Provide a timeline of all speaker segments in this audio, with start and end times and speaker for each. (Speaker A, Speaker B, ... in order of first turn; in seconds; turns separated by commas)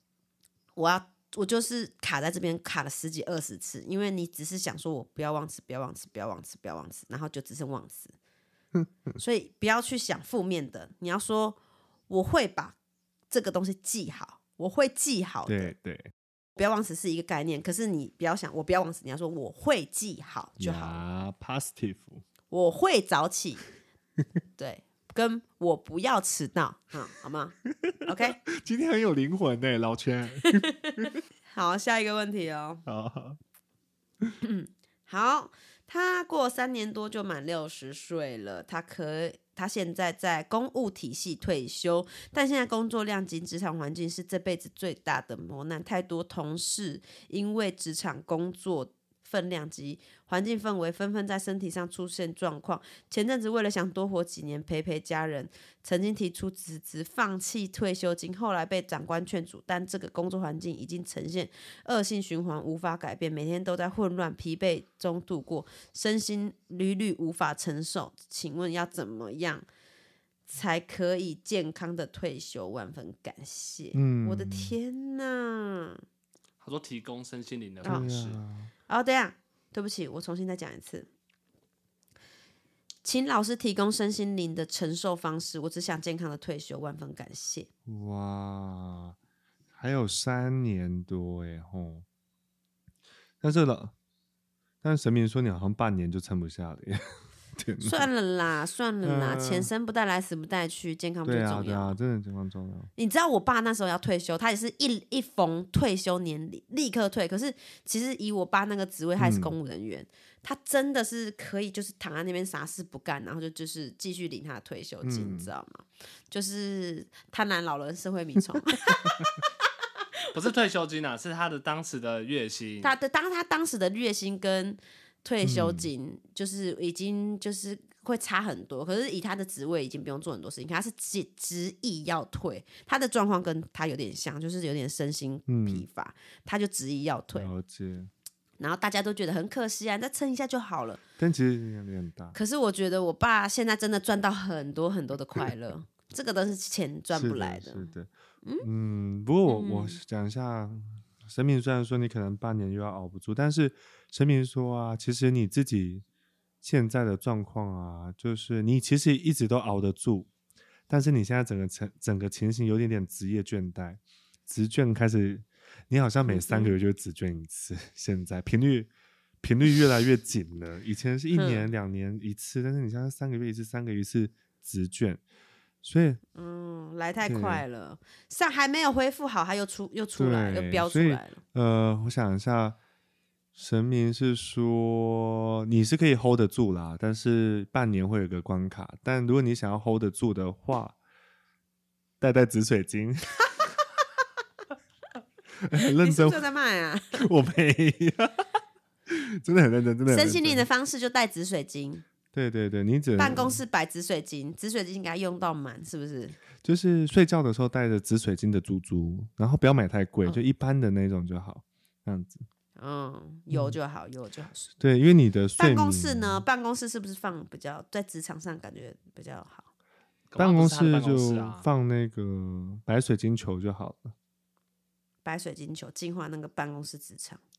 Speaker A: 0.8-8.2, Speaker A: 9.2-11.6, Speaker A: 12.1-12.8, Speaker A: 13.3-15.7, Speaker B: 15.5-16.1, Speaker A: 16.6-21.0, Speaker B: 20.6-22.2, Speaker A: 22.5-23.6, Speaker A: 24.6-28.4, Speaker B: 27.8-31.2, Speaker A: 30.4-31.0, Speaker A: 31.5-32.8, Speaker B: 32.9-33.4, Speaker A: 34.4-69.7, Speaker A: 70.5-76.0, Speaker B: 73.9-74.8, Speaker C: 76.6-78.4, Speaker B: 77.8-78.7, Speaker A: 78.9-81.1, Speaker A: 83.0-87.7, Speaker B: 87.9-89.2, Speaker B: 89.8-92.1, Speaker B: 93.4-93.9, Speaker B: 94.8-98.1, Speaker A: 97.8-102.0, Speaker B: 99.0-99.7, Speaker B: 101.2-102.9, Speaker A: 103.0-119.2, Speaker B: 109.2-109.5, Speaker B: 115.0-115.5, Speaker C: 120.3-123.0, Speaker A: 122.8-137.5, Speaker B: 125.4-125.9, Speaker B: 135.5-135.8, Speaker B: 137.3-138.1, Speaker A: 138.6-141.0, Speaker B: 141.2-142.4, Speaker A: 142.3-148.7, Speaker B: 147.1-156.1, Speaker A: 149.5-150.0, Speaker B: 156.6-160.3, Speaker B: 160.9-168.9, Speaker A: 166.3-166.8, Speaker B: 169.4-175.2, Speaker A: 171.3-171.7, Speaker B: 175.8-176.2, Speaker A: 176.3-181.4, Speaker B: 177.2-177.6, Speaker B: 180.2-182.8, Speaker B: 183.6-191.0, Speaker B: 192.2-193.7, Speaker B: 195.6-196.4, Speaker A: 195.9-197.2, Speaker B: 197.2-198.4, Speaker B: 199.1-200.7, Speaker A: 200.1-202.1, Speaker B: 202.3-203.6, Speaker A: 203.2-206.4, Speaker B: 206.6-212.5, Speaker A: 212.8-214.7, Speaker B: 213.5-213.8, Speaker B: 214.8-216.4, Speaker A: 215.6-219.7, Speaker C: 220.3-221.7, Speaker B: 220.4-224.1, Speaker A: 225.2-227.4